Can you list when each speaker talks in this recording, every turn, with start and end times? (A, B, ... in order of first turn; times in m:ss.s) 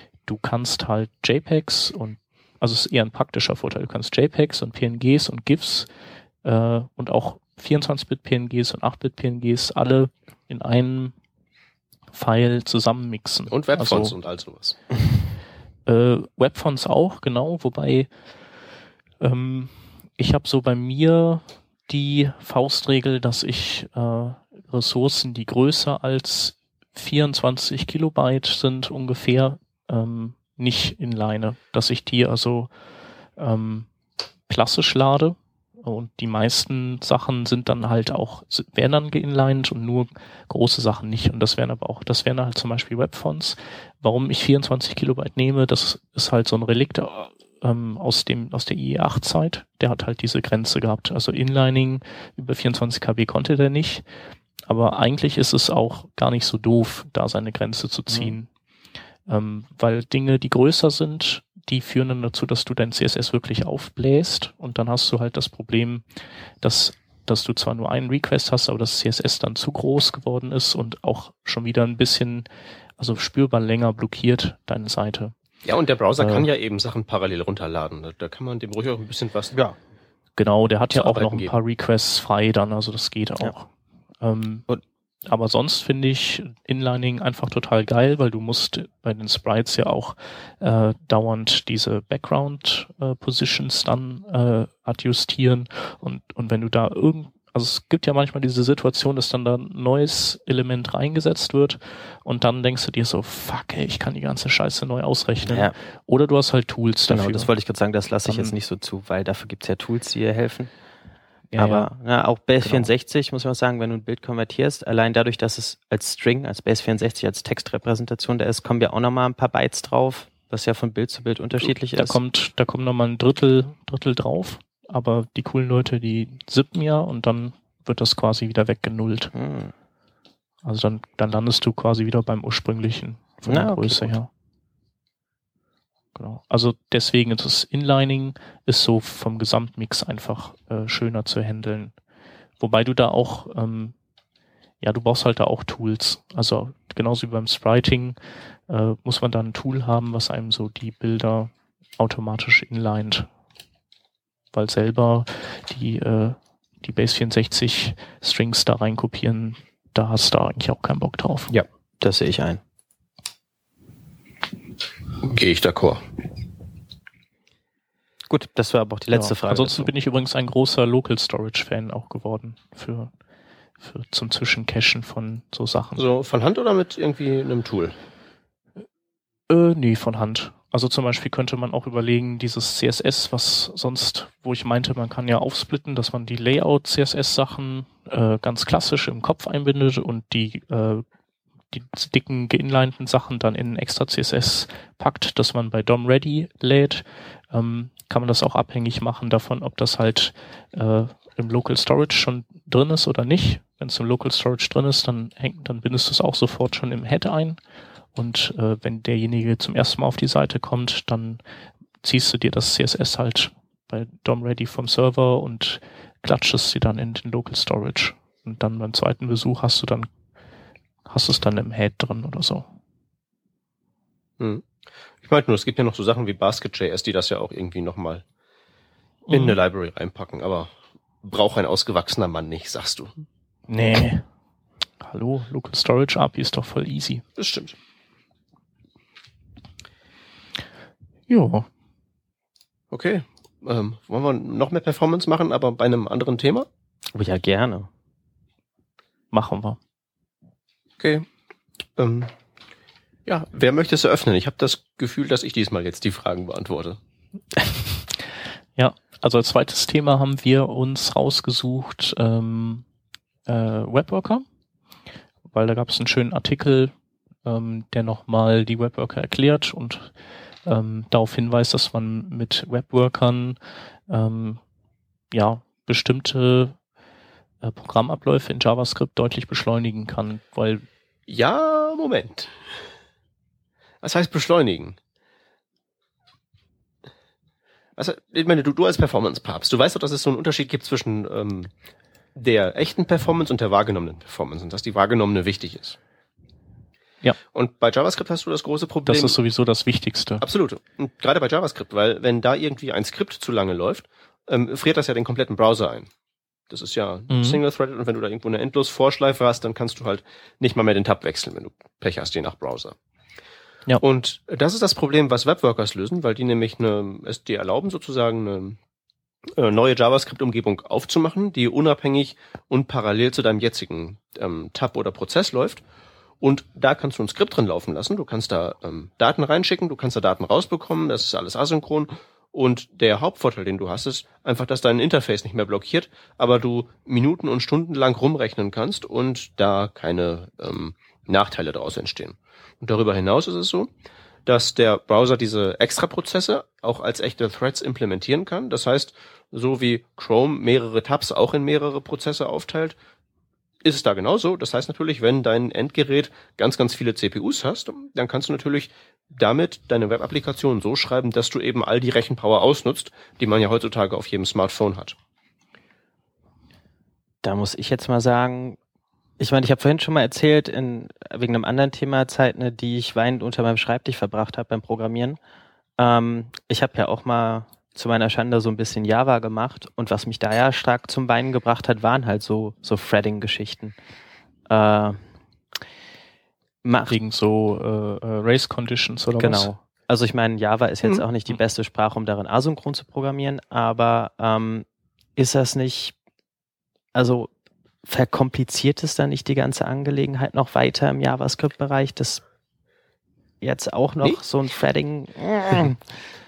0:00.3-0:05.9 A
0:06.4-0:11.2 A
0:12.1-0:14.2 A
0:13.5-0:14.8 B
0:15.9-0:18.1 A
0:19.2-0:32.7 A
0:33.4-0:33.9 A
0:34.5-0:54.0 A
0:54.7-0:58.5 A
0:59.3-1:06.0 A
1:06.6-1:12.5 A
1:13.0-1:15.3 A
1:15.6-1:19.6 B
1:16.2-1:16.5 A
1:20.4-1:23.7 A
1:20.9-1:21.5 B
1:24.2-1:24.7 A
1:25.3-1:47.5 A
1:45.5-1:45.8 C
1:47.1-1:50.7 C
1:48.3-1:48.6 A
1:51.5-1:51.9 A
1:51.6-2:02.2 C
1:52.6-1:52.9 A
2:01.6-2:09.3 A
2:09.4-2:09.7 C
2:10.6-2:14.3 A
2:13.5-2:14.2 C
2:16.2-2:22.0 A
2:22.6-2:24.0 A
2:24.8-2:28.2 A
2:28.7-2:33.3 A
2:34.5-2:41.5 A
2:42.0-2:42.6 C
2:45.2-2:46.0 B
2:48.3-2:49.9 C
2:49.1-2:53.1 A
2:53.8-2:56.0 A
2:56.0-2:58.0 B
2:59.5-3:11.0 A
3:11.7-3:27.6 A
3:28.2-3:31.4 A
3:32.0-3:40.1 A
3:41.1-3:42.7 A
3:44.4-3:44.7 B
3:45.2-3:48.2 B
3:49.3-3:49.6 A
3:49.3-3:50.7 B
3:51.2-3:53.2 B
3:53.7-3:54.2 A
3:55.0-3:57.2 A
3:57.4-3:57.8 B
4:01.3-4:01.7 A
4:02.9-4:06.7 B
4:07.1-4:07.9 C
4:09.3-4:09.8 A
4:11.0-4:11.3 B
4:12.0-4:12.3 B
4:13.3-4:17.0 B
4:18.8-4:22.8 A
4:23.5-4:24.4 A
4:25.5-4:26.9 A
4:27.4-4:30.1 A
4:30.6-4:33.6 A
4:34.1-4:34.6 A
4:35.3-4:36.8 A
4:37.6-4:40.8 A
4:41.3-4:42.5 B
4:44.0-4:45.0 B
4:48.0-4:51.7 B
4:52.4-4:56.0 B
4:57.5-4:59.4 B
4:59.1-5:00.4 A
5:00.4-5:06.1 B
5:06.7-5:13.0 B
5:07.3-5:07.6 A
5:14.0-5:18.8 B
5:19.6-5:25.8 B
5:26.4-5:43.9 B
5:44.5-5:53.0 B
5:53.8-6:05.2 B
6:07.4-6:08.8 C
6:09.4-6:15.4 C
6:16.0-6:24.0 C
6:24.7-6:25.2 C
6:26.8-6:27.2 C
6:27.1-6:29.7 A
6:29.4-6:36.2 C
6:37.1-6:37.5 C
6:38.0-6:42.4 C
6:43.6-6:46.0 C